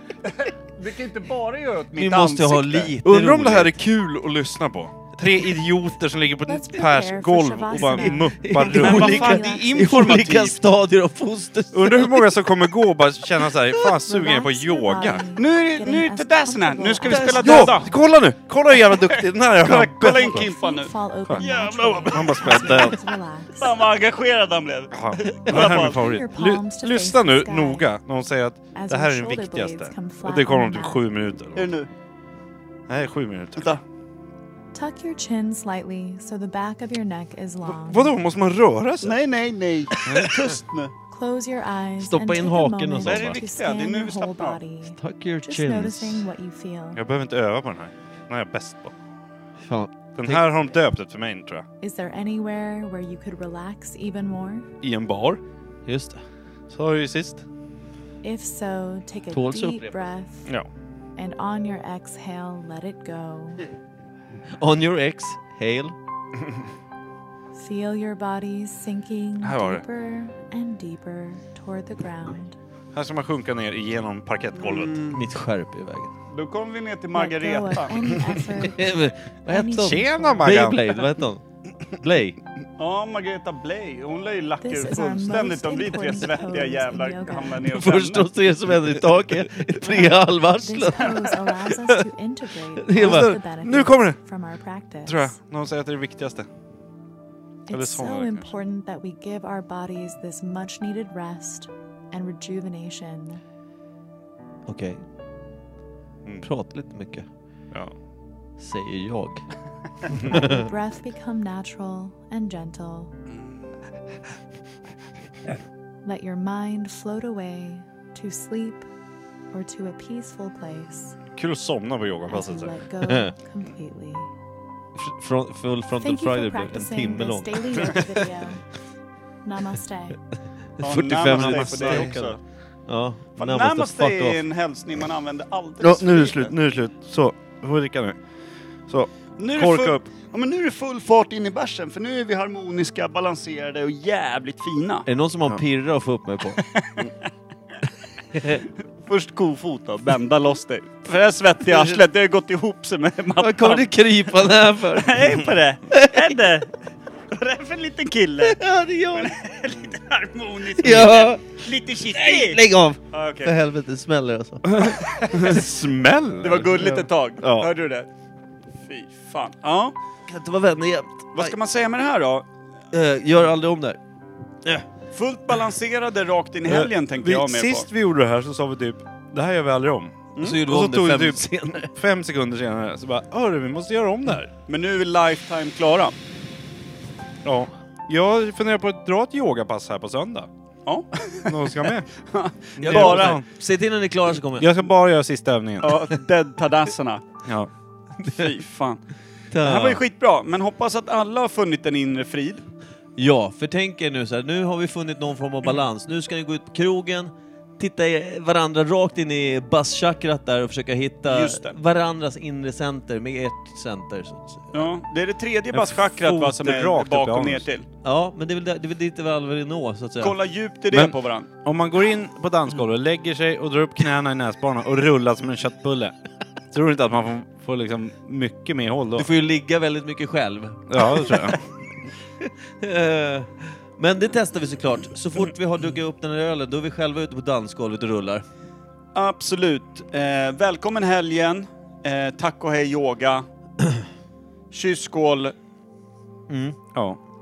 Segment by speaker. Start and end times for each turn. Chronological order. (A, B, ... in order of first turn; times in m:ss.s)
0:00.4-0:03.0 A
0:01.9-0:03.8 B
0:03.0-0:10.6 C
0:06.5-0:09.9 D
0:07.8-0:12.3 B
0:08.7-0:10.4 A
0:11.7-0:15.2 C
0:13.7-0:17.7 D
0:15.3-0:17.9 A
0:17.0-0:17.7 B
0:17.4-0:20.5 C
0:18.7-0:22.7 A
0:20.1-0:23.8 D
0:22.0-0:23.0 C
0:23.6-0:26.1 A
0:24.9-0:31.7 C
0:25.2-0:27.9 D
0:28.7-0:31.1 D
0:31.5-0:31.9 A
0:32.9-0:33.8 C
0:33.6-0:33.8 A
0:34.7-0:38.2 D
0:37.6-0:39.2 C
0:39.0-0:40.9 A
0:40.0-0:40.3 C
0:41.1-0:47.0 D
0:42.0-0:43.4 B
0:43.0-0:44.6 A
0:44.9-0:46.2 B
0:46.9-0:48.9 C
0:49.6-0:50.5 B
0:50.2-0:51.6 C
0:51.8-0:54.7 D
0:54.8-0:55.4 C
0:55.8-0:56.2 B
0:56.7-0:57.4 C
0:58.2-1:00.5 D
0:59.3-1:00.0 B
1:01.2-1:03.6 D
1:04.6-1:05.9 B
1:07.5-1:12.6 D
1:09.4-1:09.8 C
1:12.9-1:15.0 C
1:14.5-1:15.2 A
1:15.0-1:16.1 B
1:16.3-1:18.1 A
1:17.1-1:20.6 D
1:18.4-1:22.4 B
1:19.7-1:20.9 C
1:22.8-1:28.3 A
1:24.6-1:27.6 D
1:27.6-1:31.9 B
1:29.8-1:35.4 D
1:32.8-1:33.3 B
1:32.9-1:34.2 C
1:35.0-1:36.5 C
1:37.7-1:43.4 D
1:37.7-1:38.5 C
1:44.6-1:45.0 B
1:46.2-1:46.5 C
1:46.4-1:47.3 B
1:47.7-1:48.0 C
1:48.6-1:49.5 B
1:50.3-1:53.1 D
1:56.0-1:58.9 D
1:59.5-2:01.2 D
2:01.3-2:02.8 C
2:02.3-2:04.3 D
2:03.0-2:03.3 B
2:05.0-2:08.0 B
2:06.0-2:08.7 D
2:09.4-2:10.2 D
2:10.8-2:12.4 A
2:10.8-2:14.4 B
2:11.2-2:12.3 C
2:13.4-2:16.5 A
2:15.8-2:18.2 C
2:18.8-2:20.1 C
2:19.4-2:25.1 A
2:25.0-2:26.6 B
2:26.8-2:27.1 A
2:29.0-2:33.9 A
2:33.4-2:35.2 B
2:34.4-2:36.7 A
2:37.3-2:38.6 A
2:38.4-2:39.3 B
2:39.1-2:43.6 A
2:40.7-2:44.9 B
2:44.7-2:47.7 C
2:44.9-2:45.6 A
2:46.4-2:48.1 A
2:48.8-2:49.9 A
2:50.3-2:51.6 B
2:51.3-2:52.4 A
2:52.9-2:54.0 B
2:55.1-2:57.9 A
2:56.6-3:04.5 C
3:00.3-3:00.6 A
3:00.4-3:01.9 B
3:04.7-3:06.2 A
3:07.4-3:10.5 C
3:10.8-3:13.4 A
3:11.4-3:12.1 C
3:12.8-3:13.4 C
3:12.8-3:14.7 B
3:14.5-3:16.0 C
3:15.8-3:17.2 A
3:17.4-3:17.7 C
3:18.2-3:22.6 A
3:19.5-3:20.0 B
3:23.2-3:34.9 B
3:31.2-3:31.8 A
3:34.7-3:37.8 A
3:35.7-3:37.7 C
3:38.0-3:40.4 B
3:40.2-3:41.5 A
3:40.9-3:46.1 C
3:46.7-3:49.3 C
3:49.2-3:51.5 B
3:50.9-3:51.6 C
3:52.8-3:58.4 B
3:59.1-4:03.4 A
4:04.7-4:05.5 A
4:06.5-4:06.8 B